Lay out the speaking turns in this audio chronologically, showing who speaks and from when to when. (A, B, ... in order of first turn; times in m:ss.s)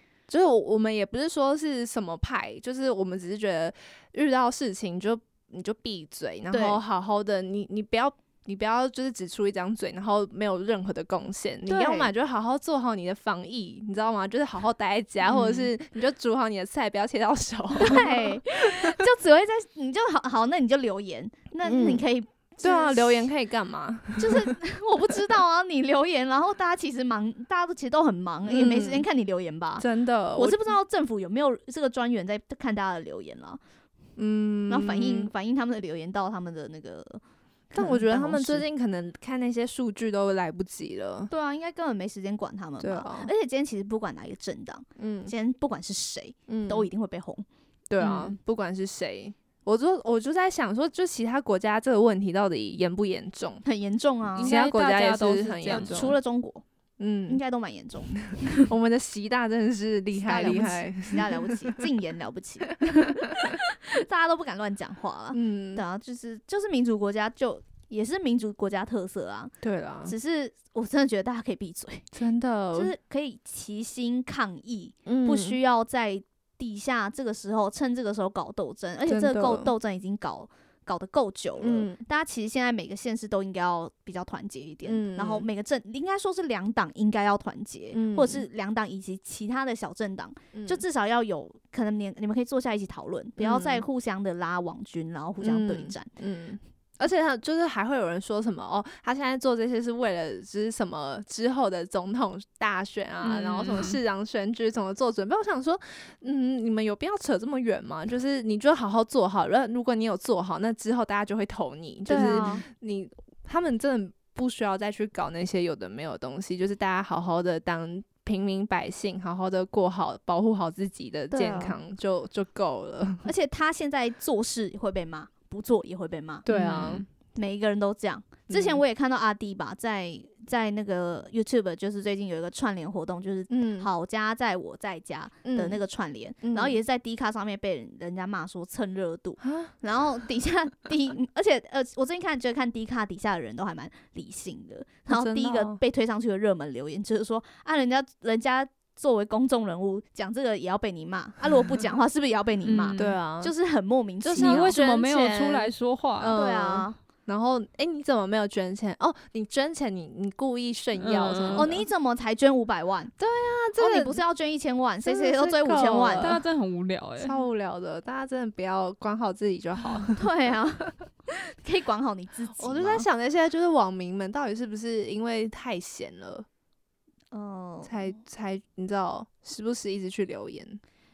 0:00.3-0:19.0 A
0:06.5-0:06.8 B
0:11.7-0:12.1 B
0:17.8-0:23.3 B
0:21.6-0:22.0 A
0:22.6-0:24.6 A
0:24.2-0:33.6 B
0:28.4-0:29.1 A
0:29.8-0:30.8 A
0:34.2-0:35.3 A
0:34.7-0:38.7 B
0:37.7-0:41.3 A
0:41.3-0:47.4 B
0:42.8-0:43.3 A
0:45.0-0:45.3 A
0:46.5-0:46.9 A
0:47.9-0:53.6 A
0:48.0-0:48.4 C
0:53.6-0:54.5 B
0:54.4-0:56.2 C
0:54.4-0:56.2 A
0:55.7-0:56.6 B
0:57.0-0:57.4 A
0:57.3-0:58.3 B
0:58.2-1:01.8 A
1:00.1-1:09.6 B
1:02.9-1:03.6 A
1:05.3-1:05.8 A
1:09.6-1:10.2 A
1:10.1-1:12.1 B
1:12.1-1:12.9 A
1:12.7-1:36.1 B
1:15.1-1:15.6 A
1:19.1-1:19.7 A
1:21.6-1:22.0 A
1:24.8-1:25.5 A
1:27.9-1:28.4 A
1:30.5-1:30.8 A
1:33.4-1:33.8 A
1:35.4-2:03.3 A
1:43.2-1:44.0 C
1:52.1-1:52.6 B
1:52.1-1:52.6 C
2:01.3-2:01.8 B
2:03.2-2:34.8 B
2:06.5-2:07.0 A
2:06.5-2:07.1 C
2:08.5-2:08.8 A
2:13.5-2:13.9 A
2:15.4-2:15.8 A
2:16.4-2:16.8 A
2:19.4-2:19.7 A
2:25.1-2:25.8 A
2:32.6-2:33.2 C
2:33.0-2:33.5 A
2:34.2-2:41.8 A
2:34.4-2:36.4 C
2:36.3-2:37.0 B
2:41.0-2:41.8 C
2:41.5-2:43.1 B
2:43.2-2:44.2 A
2:43.8-2:46.4 B
2:45.0-2:46.4 A
2:46.2-2:47.4 C
2:47.2-2:50.3 A
2:50.2-2:53.1 B
2:52.5-2:56.5 A
2:57.3-2:58.1 B
2:57.8-3:00.8 A